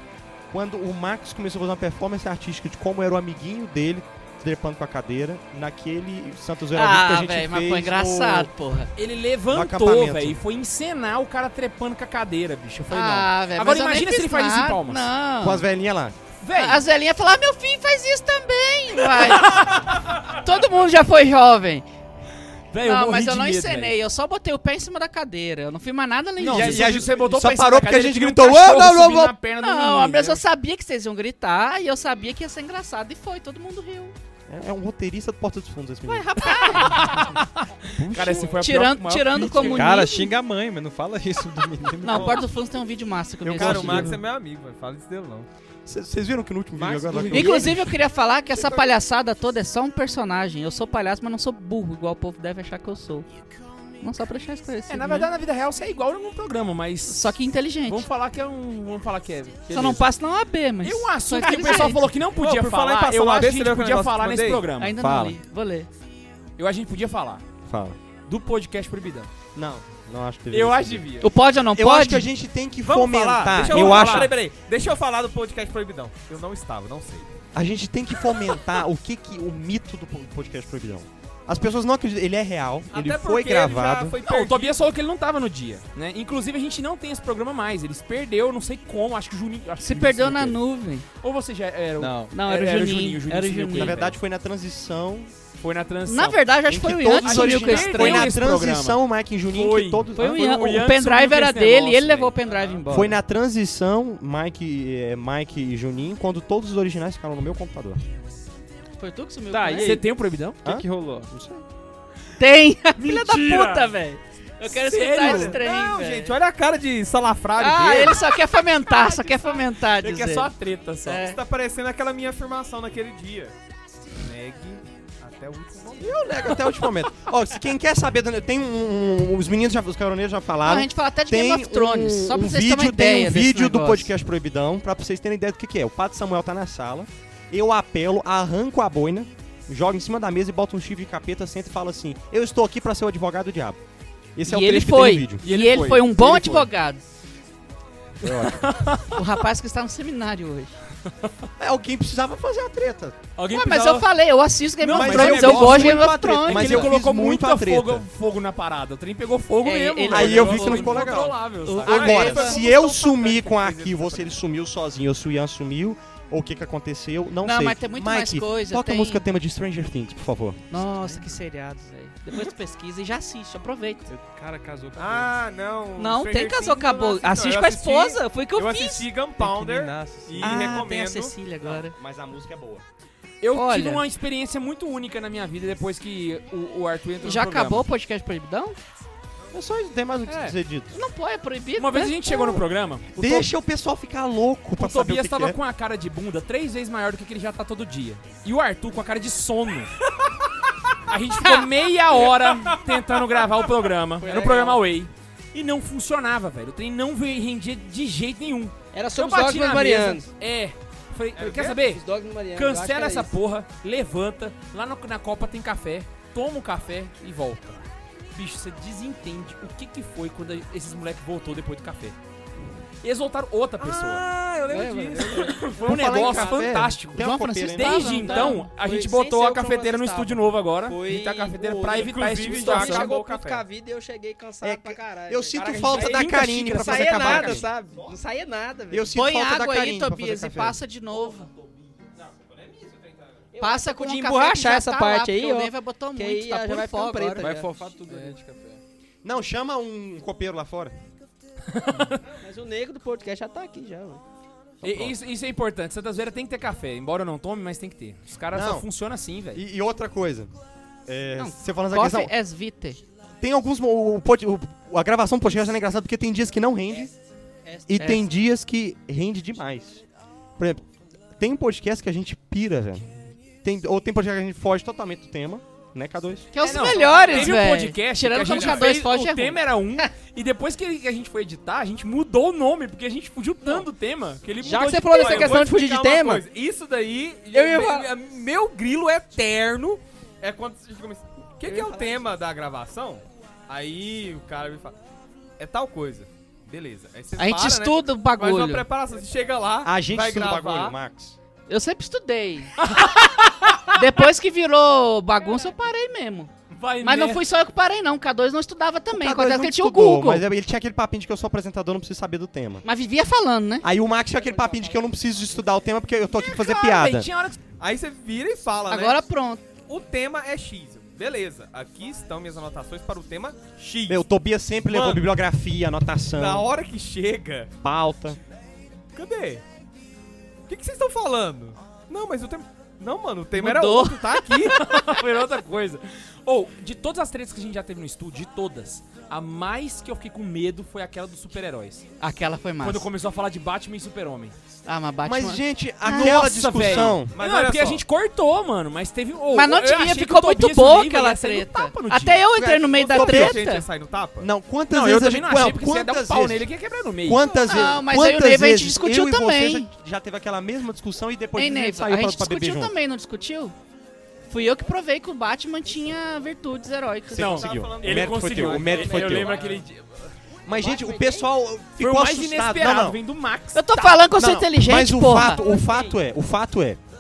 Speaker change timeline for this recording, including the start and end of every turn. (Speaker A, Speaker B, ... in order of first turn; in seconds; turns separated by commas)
Speaker A: 0.5-8.5, Speaker B: 6.8-8.9, Speaker C: 9.0-15.0, Speaker A: 9.5-10.4, Speaker B: 12.9-15.7, Speaker A: 15.4-16.2, Speaker C: 16.4-16.8, Speaker B: 16.6-21.9, Speaker C: 22.7-24.0, Speaker B: 22.8-27.1, Speaker C: 26.4-30.4, Speaker A: 26.5-29.4, Speaker B: 29.6-34.1, Speaker A: 34.5-37.0, Speaker B: 36.1-37.4, Speaker C: 36.6-40.0, Speaker B: 38.1-40.3, Speaker D: 39.6-42.5, Speaker B: 42.0-44.2, Speaker E: 42.1-42.5, Speaker E: 43.5-45.5, Speaker A: 43.5-44.2, Speaker A: 45.9-47.9, Speaker F: 46.8-47.9, Speaker B: 47.3-53.3, Speaker B: 54.0-55.3, Speaker C: 54.9-57.2, Speaker B: 57.1-58.1, Speaker C: 57.9-60.1, Speaker B: 59.7-62.0, Speaker C: 60.8-64.9, Speaker E: 62.3-64.7, Speaker B: 64.8-65.9, Speaker A: 65.0-65.4, Speaker C: 66.6-67.4, Speaker A: 67.7-68.0, Speaker C: 68.3-69.3, Speaker A: 69.5-71.0, Speaker C: 70.5-71.3, Speaker B: 71.2-72.3, Speaker A: 71.7-74.3, Speaker E: 72.9-77.3, Speaker C: 73.6-74.3, Speaker A: 77.5-84.2, Speaker E: 82.9-84.9, Speaker C: 84.2-90.6, Speaker B: 89.8-91.1, Speaker C: 91.2-94.2, Speaker D: 92.0-92.3, Speaker B: 92.3-94.0, Speaker A: 93.7-95.3, Speaker C: 95.6-96.5, Speaker B: 96.1-98.3, Speaker A: 96.7-100.8, Speaker C: 97.2-102.3, Speaker B: 100.1-103.2, Speaker E: 102.5-102.8, Speaker A: 102.9-108.0, Speaker B: 109.0-110.0, Speaker D: 109.5-109.9, Speaker C: 109.6-110.7, Speaker A: 110.6-111.7, Speaker D: 110.7-111.3, Speaker B: 112.4-116.4, Speaker C: 113.0-114.0, Speaker C: 114.7-115.6, Speaker E: 115.2-118.3, Speaker B: 117.6-120.5, Speaker C: 118.9-121.2, Speaker B: 121.0-121.4, Speaker E: 121.2-123.5, Speaker E: 124.2-126.2, Speaker A: 126.0-143.8, Speaker B: 130.6-134.1, Speaker A: 144.3-145.4, Speaker B: 144.5-147.0, Speaker C: 145.4-146.7, Speaker A: 148.2-148.8, Speaker C: 148.2-149.2, Speaker B: 149.1-150.8, Speaker A: 151.6-153.2, Speaker C: 153.4-154.1, Speaker B: 153.5-156.9, Speaker C: 154.8-162.6, Speaker A: 154.9-158.1, Speaker B: 159.6-162.7, Speaker A: 160.1-170.7, Speaker E: 161.8-164.4, Speaker B: 167.4-169.2, Speaker B: 170.7-174.1, Speaker D: 174.1-175.4, Speaker E: 175.0-181.4, Speaker B: 176.0-179.1, Speaker D: 179.4-180.6, Speaker C: 180.3-180.8, Speaker B: 180.4-181.9, Speaker A: 181.6-182.8, Speaker C: 183.4-187.8, Speaker B: 183.5-184.0, Speaker B: 187.2-188.8, Speaker A: 189.5-191.0, Speaker C: 190.3-190.6, Speaker B: 190.9-192.6, Speaker C: 191.8-193.5, Speaker A: 193.2-195.6, Speaker C: 194.8-199.9, Speaker C: 201.1-222.2, Speaker E: 202.3-203.5, Speaker F: 204.2-204.8, Speaker F: 208.9-210.3, Speaker E: 211.3-211.8, Speaker F: 211.8-213.3, Speaker C: 223.0-224.3, Speaker F: 224.6-225.8, Speaker D: 224.7-225.4, Speaker E: 224.7-225.6, Speaker C: 225.3-233.1, Speaker A: 225.8-228.2, Speaker B: 227.2-228.7, Speaker F: 228.1-239.2, Speaker E: 231.8-233.7, Speaker A: 234.6-237.7, Speaker C: 235.8-237.7, Speaker A: 238.9-240.8, Speaker B: 239.1-241.5, Speaker E: 242.2-243.4, Speaker F: 243.5-248.4, Speaker B: 243.6-247.5, Speaker D: 247.4-248.8, Speaker A: 249.2-251.1, Speaker C: 251.7-252.2, Speaker F: 252.4-254.2, Speaker A: 254.8-255.2, Speaker C: 254.8-259.6, Speaker A: 258.5-258.9, Speaker A: 259.5-260.5, Speaker A: 261.1-262.3, Speaker B: 261.4-263.0, Speaker A: 263.4-267.1, Speaker F: 267.6-267.9, Speaker A: 267.9-270.0, Speaker B: 268.0-268.3, Speaker A: 270.6-270.9, Speaker A: 271.4-276.5, Speaker B: 276.5-279.6, Speaker C: 276.6-285.7, Speaker E: 276.6-277.6, Speaker E: 278.5-278.9, Speaker F: 284.6-286.4, Speaker E: 285.1-295.0, Speaker F: 287.5-288.1, Speaker F: 291.6-292.2, Speaker E: 295.6-301.0, Speaker B: 297.4-298.9, Speaker A: 299.8-301.4, Speaker B: 301.7-302.9, Speaker C: 302.8-304.0, Speaker B: 303.9-306.5, Speaker C: 306.7-307.4, Speaker B: 307.0-310.4, Speaker A: 309.1-312.8, Speaker B: 312.8-313.9, Speaker A: 313.8-317.3, Speaker F: 314.5-315.1, Speaker C: 316.5-317.6, Speaker E: 317.8-319.3, Speaker B: 318.9-319.6, Speaker E: 319.9-324.2, Speaker A: 324.1-326.7, Speaker E: 324.9-325.3, Speaker E: 326.4-327.7, Speaker A: 327.8-328.4, Speaker E: 329.1-329.6, Speaker E: 330.7-334.8, Speaker B: 333.6-335.2, Speaker C: 334.7-342.1, Speaker B: 342.2-343.1, Speaker C: 342.8-344.6, Speaker B: 344.9-346.5, Speaker A: 345.2-347.4, Speaker C: 346.1-352.5, Speaker E: 346.8-348.0, Speaker B: 349.5-353.9, Speaker A: 352.6-353.6, Speaker E: 353.0-354.5, Speaker A: 354.4-356.7, Speaker C: 354.9-357.4, Speaker A: 357.2-362.9, Speaker E: 357.5-357.9, Speaker B: 357.7-359.9, Speaker B: 361.6-363.8, Speaker B: 364.5-367.7, Speaker A: 367.3-369.6, Speaker C: 367.3-370.0, Speaker E: 367.6-369.9, Speaker A: 370.7-373.2, Speaker F: 370.7-371.5, Speaker C: 372.0-374.2, Speaker B: 373.8-375.6, Speaker A: 374.4-377.0, Speaker F: 375.4-376.2